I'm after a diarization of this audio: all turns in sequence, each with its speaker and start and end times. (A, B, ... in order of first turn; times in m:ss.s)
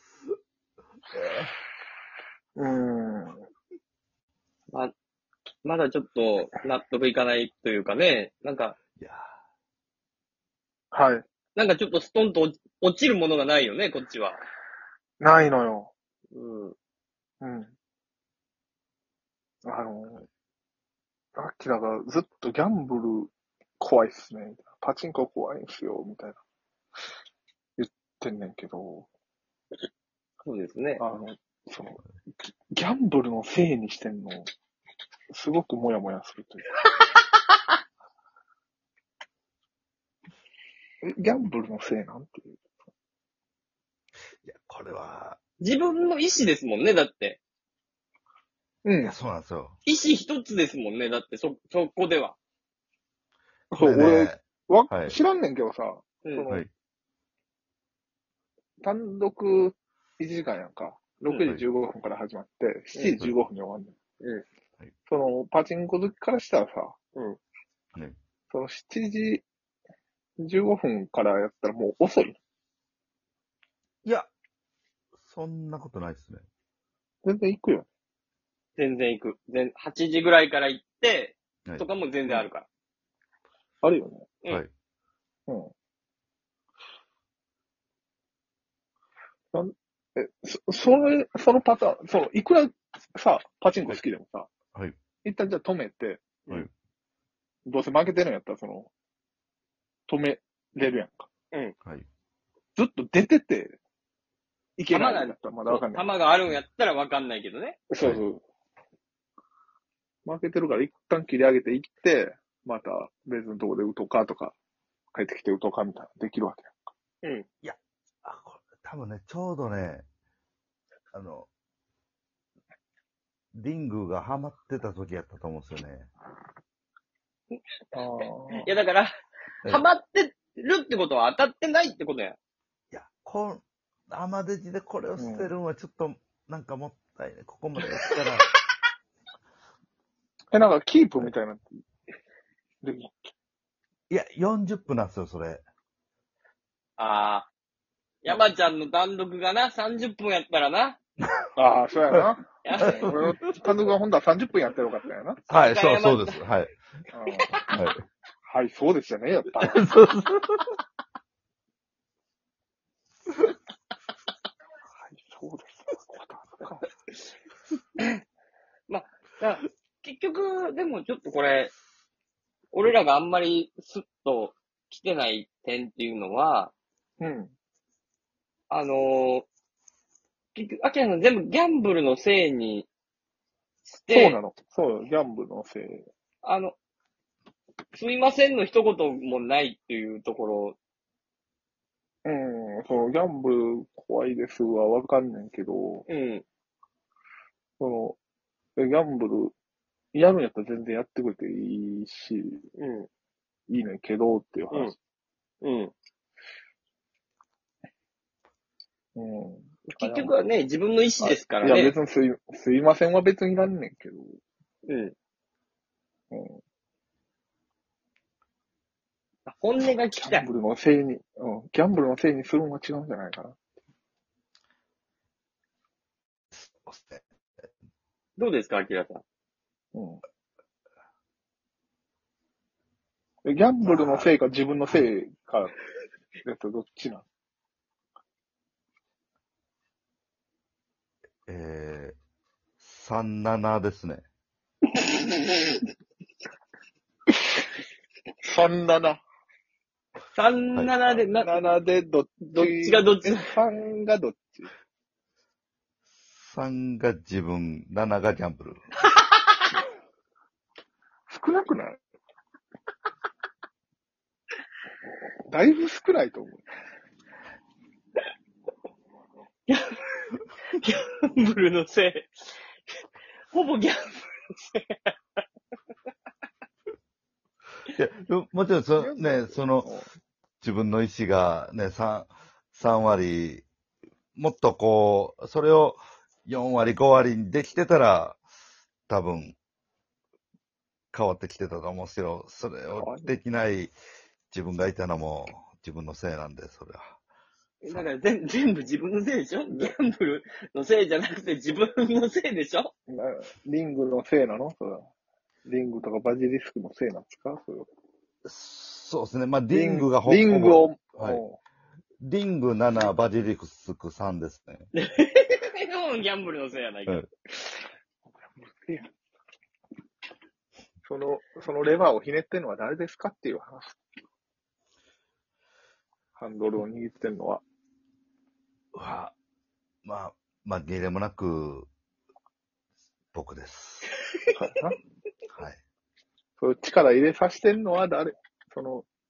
0:01.1-0:01.5 A
0:02.6-0:03.4 B
0:05.6-0:08.8 C
0:09.0-0:09.3 A
0:10.9-0:11.2 B
0:11.6-0:14.4 C
0:15.2-0:15.9 B
0:16.3-0:16.8 C
0:17.4-0:17.7 B
0:19.6-0:20.2 B
0:21.4-0:26.4 B
0:27.8-0:29.1 B
0:30.4-0:31.0 C
0:31.0-0:34.5 B
0:35.3-0:36.7 B
0:41.0-0:42.6 B
0:44.4-0:45.4 A
0:45.6-0:47.4 C
0:48.8-0:49.1 B
0:49.0-0:49.8 A
0:49.9-0:52.4 C
0:53.7-0:55.2 A
0:53.7-0:56.6 B
0:58.8-1:04.0 B
1:05.1-1:07.0 B
1:08.5-1:09.4 B
1:10.4-1:12.4 B
1:14.0-1:14.3 A
1:15.2-1:16.4 A
1:17.2-1:17.9 B
1:18.8-1:22.7 C
1:23.8-1:24.3 B
1:25.5-1:25.7 B
1:29.5-1:34.5 B
1:35.2-1:36.3 B
1:37.6-1:38.9 B
1:40.1-1:41.3 B
1:42.8-1:43.8 B
1:44.8-1:46.1 B
1:44.9-1:47.8 C
1:47.9-1:48.4 B
1:50.2-1:54.5 B
1:55.1-1:56.9 B
1:57.6-2:00.0 A
2:01.1-2:01.5 A
2:03.6-2:06.1 A
2:07.9-2:08.7 B
2:08.5-2:09.1 C
2:09.6-2:12.4 C
2:12.9-2:18.5 A
2:15.2-2:15.5 B
2:20.5-2:21.6 B
2:22.8-2:23.3 B
2:24.1-2:25.6 A
2:27.0-2:27.5 C
2:28.2-2:31.0 C
2:31.6-2:35.4 B
2:32.6-2:33.2 C
2:32.8-2:33.7 A
2:35.5-2:36.7 A
2:35.6-2:36.4 C
2:37.1-2:37.6 B
2:37.7-2:38.0 A
2:38.4-2:39.9 B
2:39.6-2:40.8 A
2:45.0-2:46.9 B
2:48.9-2:51.7 C
2:52.7-2:56.7 C
2:57.2-2:57.5 B
2:58.7-2:59.5 C
3:00.6-3:02.9 C
3:03.9-3:04.4 C
3:04.1-3:06.1 B
3:06.4-3:06.8 C
3:07.9-3:10.8 C
3:12.2-3:16.1 B
3:16.1-3:16.4 C
3:17.8-3:18.2 B
3:18.8-3:19.5 B
3:20.1-3:22.6 B
3:22.8-3:23.1 C
3:23.7-3:25.0 B
3:25.6-3:25.9 C
3:29.2-3:30.3 B
3:29.9-3:32.0 C
3:31.2-3:34.4 B
3:34.9-3:35.1 C
3:36.3-3:36.6 B
3:39.5-3:40.5 C
3:40.1-3:43.6 B
3:46.5-3:47.2 A
3:48.4-3:49.2 C
3:49.9-3:50.2 B
3:53.4-3:55.8 B
3:54.0-3:54.2 C
3:56.4-3:57.2 B
4:01.5-4:02.2 A
4:02.8-4:04.2 A
4:05.0-4:05.8 C
4:08.4-4:09.2 B
4:10.3-4:11.6 C
4:10.7-4:11.3 A
4:11.4-4:14.7 B
4:12.5-4:13.5 C
4:16.3-4:18.8 A
4:21.3-4:22.0 B
4:25.5-4:26.6 B
4:29.7-4:33.0 C
4:33.5-4:35.4 C
4:37.9-4:39.9 A
4:39.0-4:40.1 B
4:40.6-4:43.6 A
4:44.4-4:48.4 A
4:49.1-4:49.6 A
4:51.1-4:53.9 A
4:53.0-4:53.3 B
4:54.5-4:57.2 A
4:57.8-5:02.9 C
4:57.9-4:58.1 A
4:59.7-4:59.9 B
5:03.1-5:05.1 B
5:05.6-5:07.9 B
5:08.4-5:11.4 A
5:09.7-5:11.6 B
5:12.2-5:14.9 A
5:14.9-5:17.3 C
5:18.4-5:19.1 B
5:21.0-5:24.0 B
5:26.4-5:27.6 B
5:28.9-5:29.3 A
5:30.0-5:31.9 A
5:33.3-5:34.1 A
5:34.5-5:35.0 B
5:36.6-5:39.1 B